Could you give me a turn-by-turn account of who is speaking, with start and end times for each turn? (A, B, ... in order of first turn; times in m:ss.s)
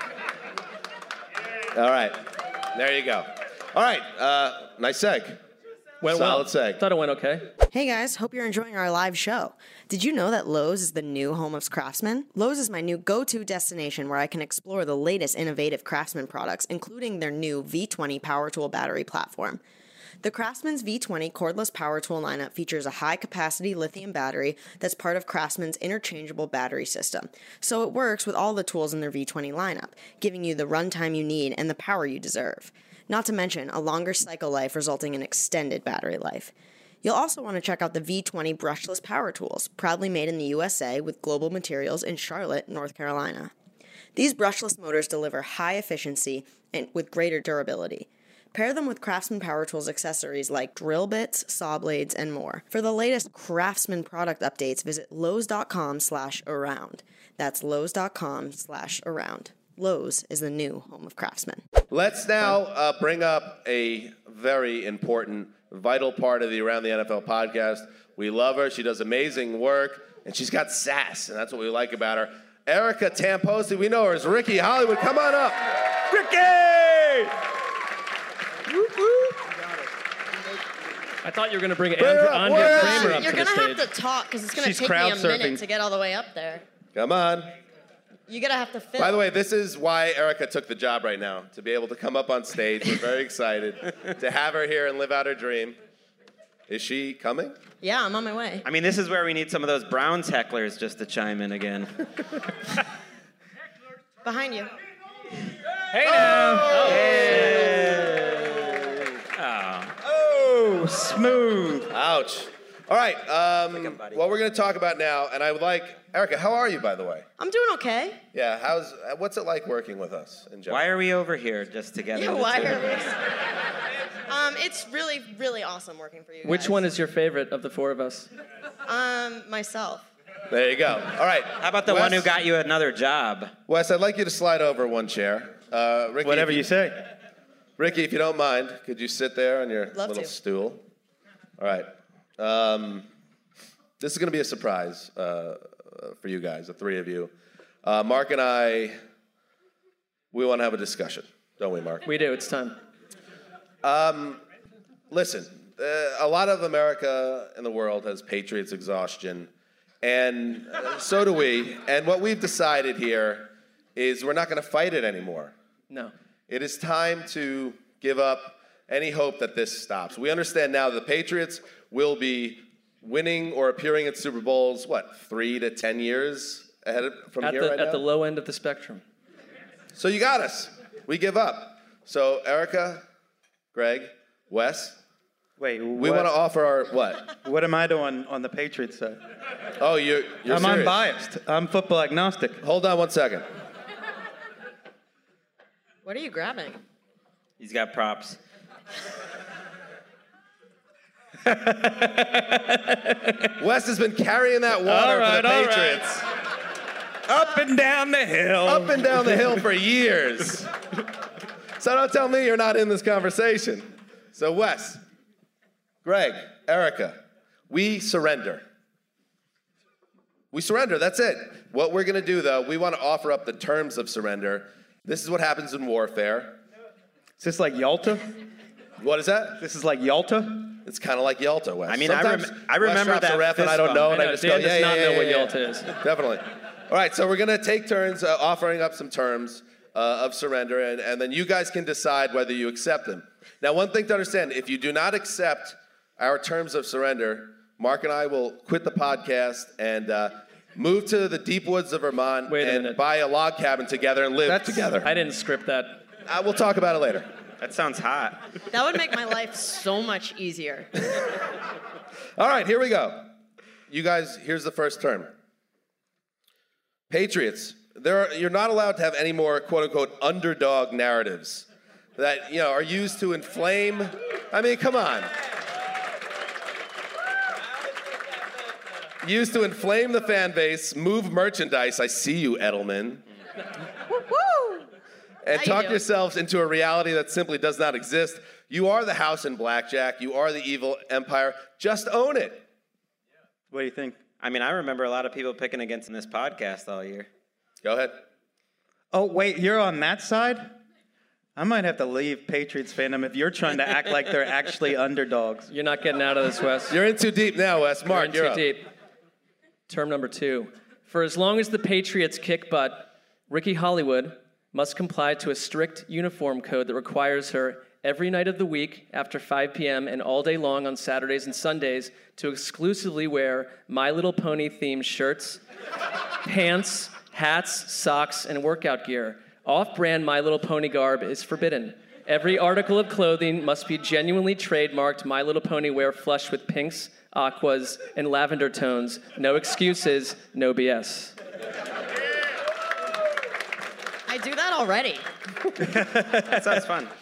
0:01.7-0:05.4 A
0:06.0-0:07.5 B
0:06.1-0:06.8 A
0:07.7-0:19.6 C
0:20.2-0:43.5 C
0:44.1-1:01.6 C
1:01.9-1:15.7 A
1:16.1-1:17.3 D
1:21.2-1:23.9 B
1:22.0-1:23.3 A
1:22.5-1:26.6 E
1:24.5-1:25.6 D
1:26.9-1:27.5 A
1:28.3-1:29.2 E
1:29.0-1:35.8 A
1:36.7-1:37.6 A
1:37.8-1:38.6 E
1:38.6-1:41.9 F
1:44.2-1:44.7 E
1:46.0-1:46.9 D
1:46.0-1:47.9 A
1:46.6-1:48.5 F
1:49.3-1:49.9 F
1:50.0-1:51.9 D
1:51.9-1:57.2 A
1:53.7-1:54.2 F
1:57.4-1:58.2 E
1:58.3-2:00.9 A
2:00.7-2:03.0 F
2:02.1-2:03.2 E
2:04.3-2:06.8 E
2:06.4-2:08.3 B
2:08.9-2:10.0 E
2:10.5-2:12.3 A
2:11.6-2:13.5 F
2:13.7-2:16.7 A
2:16.2-2:17.0 D
2:17.8-2:20.8 A
2:20.0-2:20.3 E
2:21.6-2:23.1 A
2:24.0-2:27.3 A
2:27.8-2:29.0 A
2:30.3-2:32.0 A
2:32.0-2:32.8 B
2:33.8-2:34.4 A
2:35.1-2:39.5 A
2:40.0-2:45.5 A
2:46.5-2:58.0 A
2:57.4-2:59.0 B
2:59.9-3:03.0 A
3:03.7-3:05.0 A
3:05.6-3:06.3 D
3:06.0-3:07.2 A
3:07.4-3:09.2 D
3:09.8-3:11.0 A
3:10.4-3:12.6 D
3:12.6-3:13.4 A
3:16.0-3:16.8 E
3:17.6-3:18.4 F
3:21.5-3:22.4 D
3:23.6-3:26.2 A
3:24.8-3:26.1 D
3:27.3-3:29.6 D
3:28.6-3:30.7 A
3:31.8-3:35.0 A
3:36.0-3:38.6 A
3:40.5-3:46.6 A
3:47.4-3:48.4 D
3:49.0-3:49.6 A
3:49.6-3:50.8 D
3:50.8-4:15.1 A
3:51.9-3:54.2 F
3:54.0-3:55.9 B
4:12.5-4:13.0 B
4:14.5-4:14.9 D
4:15.0-4:16.0 B
4:16.2-4:17.3 A
4:17.6-4:18.4 F
4:18.7-4:20.9 E
4:22.4-4:23.3 A
4:23.9-4:25.3 A
4:27.1-4:35.3 A
4:39.2-4:43.2 A
4:44.1-4:44.8 E
4:45.4-4:52.6 A
4:45.5-4:46.0 E
4:53.7-4:54.2 D
4:54.4-4:57.3 F
4:57.8-4:58.2 A
4:59.1-5:00.8 D
5:01.6-5:05.7 D
5:05.7-5:07.0 B
5:06.9-5:08.6 A
5:08.1-5:08.9 B
5:09.9-5:25.6 B
5:26.4-5:41.4 B
5:44.3-5:45.3 E
5:45.8-5:46.8 D
5:46.4-5:47.1 F